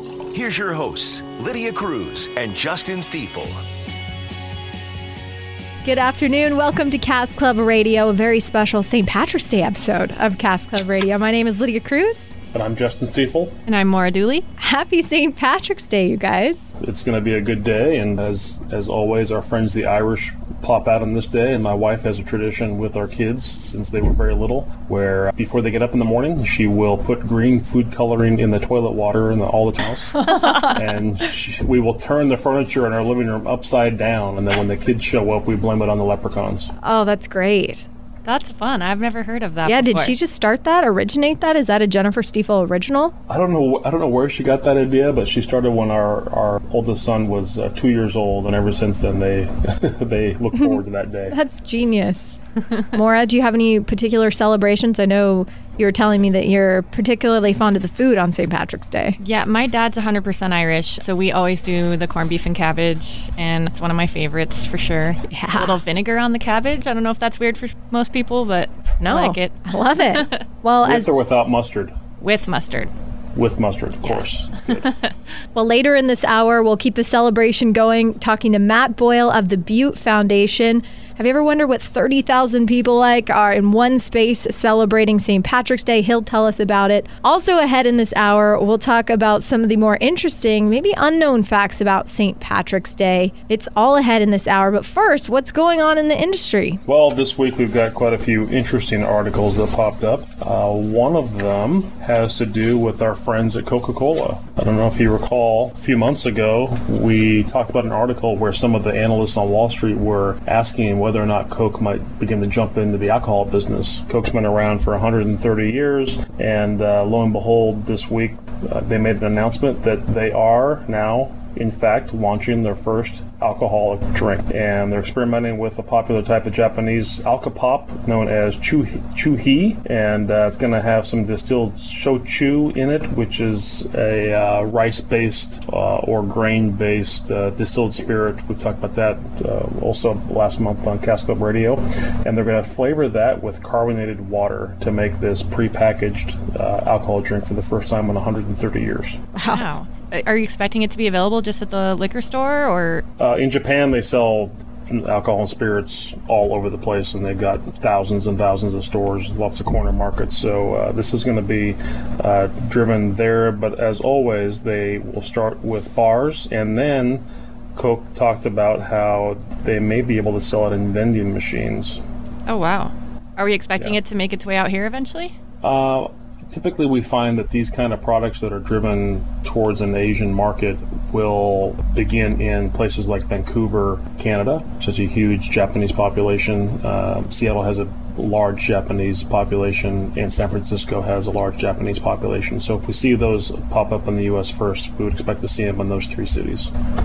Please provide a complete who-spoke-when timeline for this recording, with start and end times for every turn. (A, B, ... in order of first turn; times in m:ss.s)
0:00.3-0:03.6 A
0:05.8-0:12.3 B
0:12.5-0:13.6 C
0:13.7-0:14.5 D
0:14.6-0:16.7 B
0:16.8-0:36.7 C
0:30.2-0:30.6 B
0:36.8-0:37.9 B
0:38.2-0:40.2 D
0:39.7-0:43.2 B
0:43.3-0:51.4 C
0:50.6-0:52.4 B
0:52.9-0:59.2 B
0:59.2-1:10.4 D
1:05.3-1:05.8 B
1:09.0-1:11.1 B
1:10.8-1:12.0 C
1:12.2-1:12.9 D
1:13.4-1:14.9 C
1:14.8-1:15.1 D
1:15.6-1:36.8 B
1:36.9-2:29.2 C
2:29.4-2:29.6 B
2:29.4-2:33.0 D
2:33.2-2:47.2 C
2:47.8-2:52.0 C
2:52.5-2:55.4 D
2:55.6-3:16.7 C